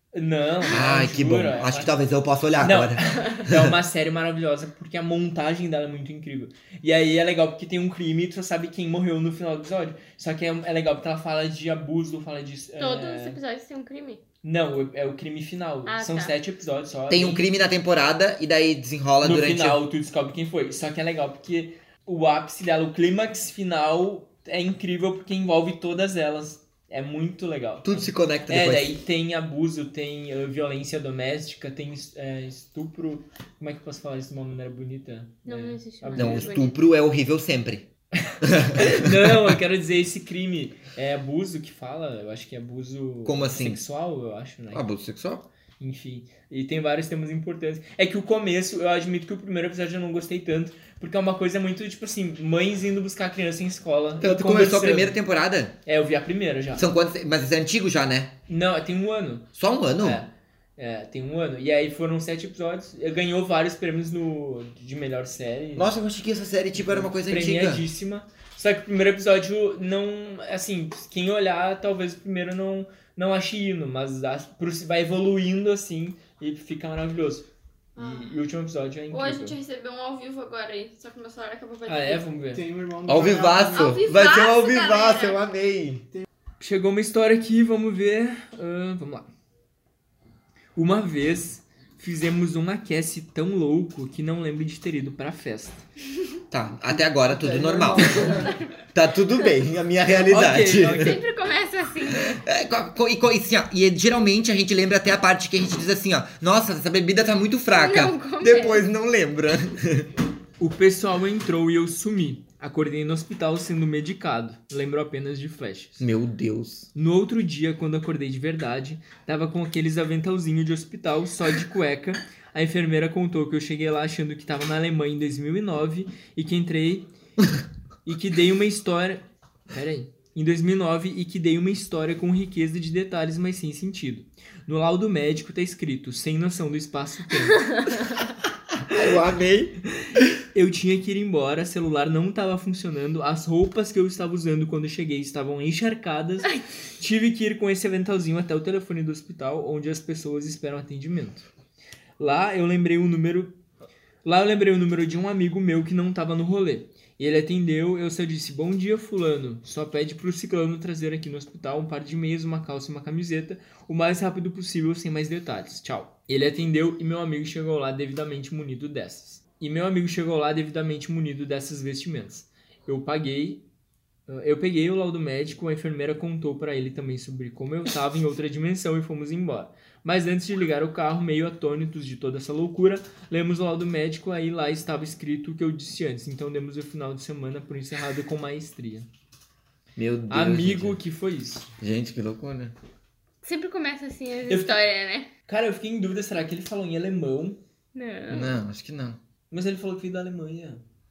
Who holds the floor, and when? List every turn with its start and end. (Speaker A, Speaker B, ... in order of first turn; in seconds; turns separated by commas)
Speaker A: 0.1-1.9, Speaker B: 0.7-3.8, Speaker A: 2.6-13.4, Speaker C: 12.8-14.2, Speaker A: 14.4-17.4, Speaker C: 15.9-16.3, Speaker B: 17.1-19.8, Speaker A: 19.2-36.6, Speaker B: 27.8-28.9, Speaker C: 35.5-36.8, Speaker B: 36.1-37.9, Speaker A: 38.2-44.9, Speaker B: 38.4-39.4, Speaker B: 43.2-43.8, Speaker B: 44.7-45.5, Speaker A: 45.8-55.2, Speaker B: 54.2-55.7, Speaker A: 55.9-56.9, Speaker B: 56.8-58.3, Speaker A: 58.5-65.9, Speaker B: 59.6-60.2, Speaker B: 65.8-67.8, Speaker A: 66.8-79.6, Speaker C: 78.0-78.3, Speaker C: 79.1-82.2, Speaker A: 81.9-82.7, Speaker D: 82.5-84.0, Speaker B: 83.1-86.0, Speaker C: 83.5-85.4, Speaker A: 86.6-89.3, Speaker A: 90.8-95.8, Speaker B: 96.5-101.2, Speaker D: 97.3-98.5, Speaker C: 98.0-99.5, Speaker A: 100.2-101.2, Speaker C: 100.8-102.4, Speaker B: 102.2-110.1, Speaker C: 107.7-108.8, Speaker A: 110.6-116.0, Speaker B: 116.0-116.9, Speaker A: 116.9-127.1, Speaker A: 128.0-138.1, Speaker B: 138.9-140.3, Speaker A: 140.5-151.5, Speaker A: 152.2-153.6, Speaker A: 154.2-173.6, Speaker A: 174.3-189.1, Speaker B: 189.9-191.0, Speaker A: 190.3-191.7, Speaker B: 191.8-192.7, Speaker C: 193.4-195.3, Speaker A: 194.5-194.8, Speaker A: 195.5-197.6, Speaker C: 197.9-198.6, Speaker B: 198.3-199.2, Speaker A: 199.5-200.8